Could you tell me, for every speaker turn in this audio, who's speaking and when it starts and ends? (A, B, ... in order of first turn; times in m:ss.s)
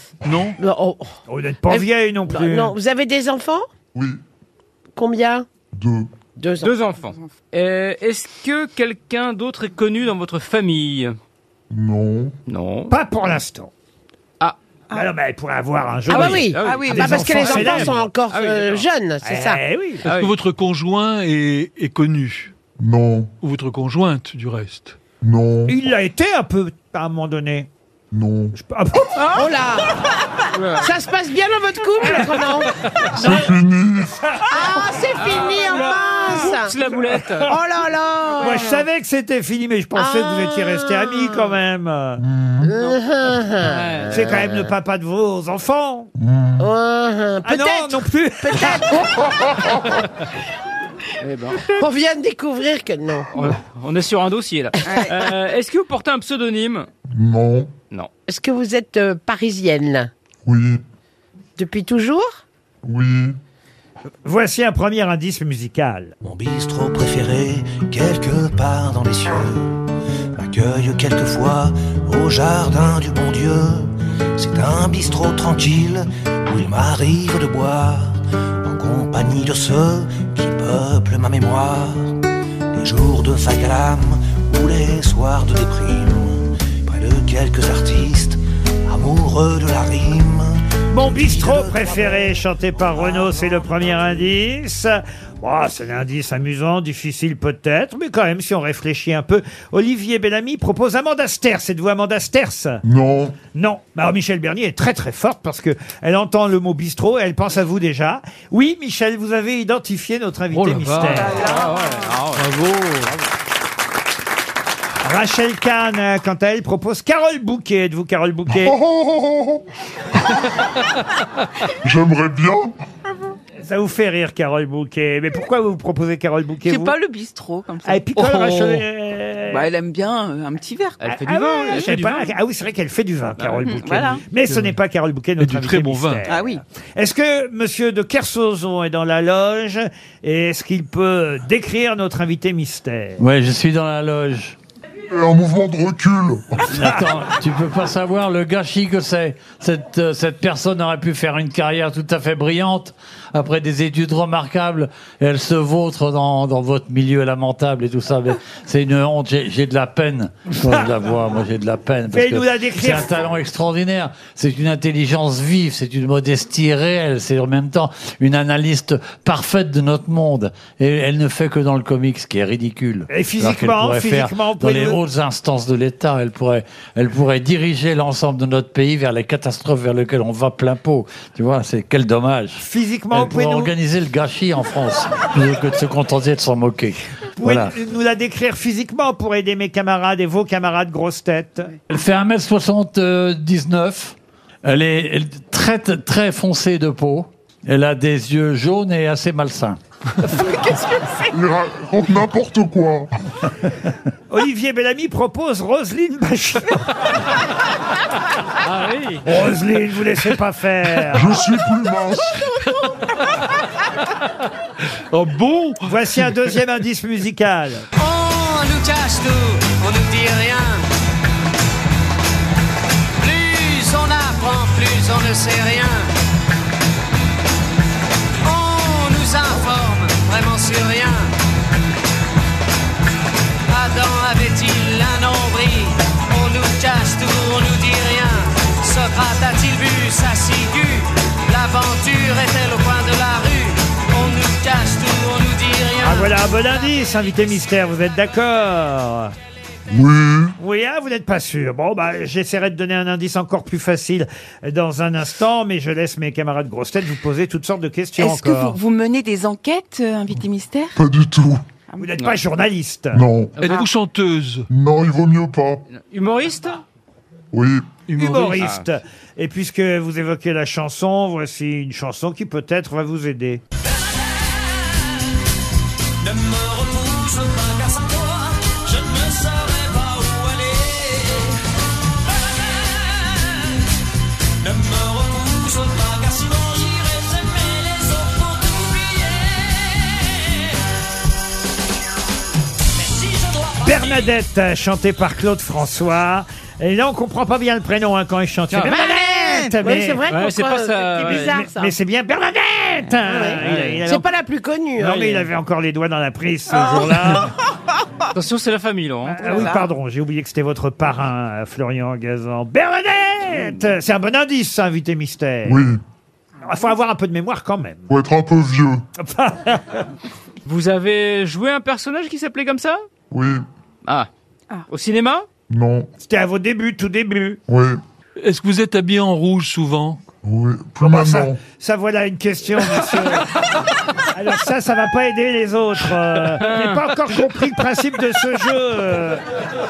0:00.2-0:00.6 A
0:00.6-0:01.1 B
0:01.3-0:02.8 C
0:01.7-0:03.7 B
0:05.0-0:05.5 B
0:05.7-0:06.1 D
0:06.4-0:06.8 B
0:06.6-0:11.2 E
0:11.7-0:12.4 D
0:12.5-0:12.9 E
0:12.9-0:13.7 C
0:14.9-0:17.9 C
0:16.1-0:18.9 E
0:16.1-0:19.6 B
0:16.6-0:17.1 F
0:19.2-0:20.0 C
0:20.0-0:20.3 E
0:20.1-0:22.5 A
0:22.8-0:23.3 D
0:23.4-0:25.0 A
0:25.2-0:25.8 D
0:25.7-0:27.7 C
0:28.1-0:28.6 D
0:28.6-0:29.2 C
0:29.3-0:30.0 B
0:30.5-0:30.9 E
0:30.8-0:32.7 B
0:33.2-0:34.2 D
0:34.5-0:36.8 B
0:35.1-0:37.6 E
0:37.4-0:38.8 B
0:38.4-0:42.2 C
0:40.0-0:41.5 B
0:42.2-0:42.7 D
0:42.6-0:44.7 B
0:43.6-0:44.2 E
0:44.1-0:46.1 C
0:46.2-0:46.7 D
0:46.6-0:49.2 B
0:47.4-0:48.8 C
0:51.2-0:51.8 E
0:51.7-0:53.3 B
0:53.4-0:56.9 E
0:57.1-0:57.8 D
0:58.3-1:00.1 B
1:00.5-1:00.8 D
1:01.6-1:02.4 B
1:02.8-1:03.4 D
1:04.2-1:06.2 C
1:06.2-1:09.8 G
1:10.4-1:22.2 G
1:22.7-1:33.1 G
1:30.9-1:42.8 C
1:42.8-1:43.4 D
1:43.5-1:51.5 C
1:50.5-1:51.4 A
1:51.3-1:51.7 F
1:51.4-1:53.2 E
1:52.4-1:53.1 A
1:55.0-1:58.8 C
1:58.5-1:59.7 D
2:01.8-2:02.8 D
2:03.6-2:07.0 C
2:06.6-2:08.6 F
2:07.8-2:09.7 C
2:09.5-2:11.1 F
2:11.0-2:12.4 E
2:11.0-2:23.2 C
2:13.4-2:13.7 E
2:13.6-2:14.2 F
2:14.5-2:14.8 A
2:15.4-2:16.3 A
2:16.3-2:16.6 F
2:23.2-2:24.6 H
2:25.1-2:26.9 D
2:26.7-3:07.7 H
2:42.1-2:43.2 C
2:53.1-2:55.0 C
3:02.6-3:03.7 C
3:07.4-3:11.7 C
3:11.9-3:19.8 H
3:21.3-3:23.1 D
3:24.3-3:27.0 C
3:28.6-3:29.3 E
3:29.2-3:31.5 C
3:31.1-3:32.3 D
3:35.1-3:35.9 A
3:35.8-3:37.8 C
3:38.0-3:40.9 I
3:43.2-3:46.1 I
3:48.4-3:51.3 I
3:53.7-4:06.3 I
4:06.0-4:09.3 C
4:09.9-4:10.6 D
4:10.6-4:18.8 C
4:18.2-4:21.0 F
4:21.0-4:21.6 D
4:22.0-4:23.3 C
4:23.1-4:23.6 D
4:23.6-4:23.9 E
4:23.6-4:24.7 A
4:24.7-4:25.9 D
4:25.9-4:26.8 E
4:27.5-4:28.0 D
4:28.1-4:28.7 A
4:28.2-4:33.6 C
4:36.4-4:38.4 I
4:39.3-4:40.6 I
4:44.8-4:49.3 I
4:53.4-4:53.9 I
4:53.8-5:00.2 C
4:58.7-4:59.0 E
4:58.9-5:01.9 B
5:00.3-5:01.6 E
5:01.3-5:04.3 C
5:03.2-5:05.5 B
5:05.0-5:07.5 C
5:08.3-5:09.7 E
5:09.4-5:15.9 C
5:09.5-5:09.8 F
5:15.6-5:16.0 D
5:16.6-5:18.1 C
5:18.1-5:19.0 D
5:19.2-5:20.1 C
5:20.6-5:23.0 E
5:23.3-5:23.6 D
5:24.9-5:25.5 E
5:25.7-5:26.1 D
5:26.2-5:27.6 C
5:27.7-5:28.0 D
5:28.4-5:30.2 A
5:30.4-5:31.6 D
5:31.0-5:33.5 C
5:34.3-5:39.4 C
5:36.6-5:37.0 E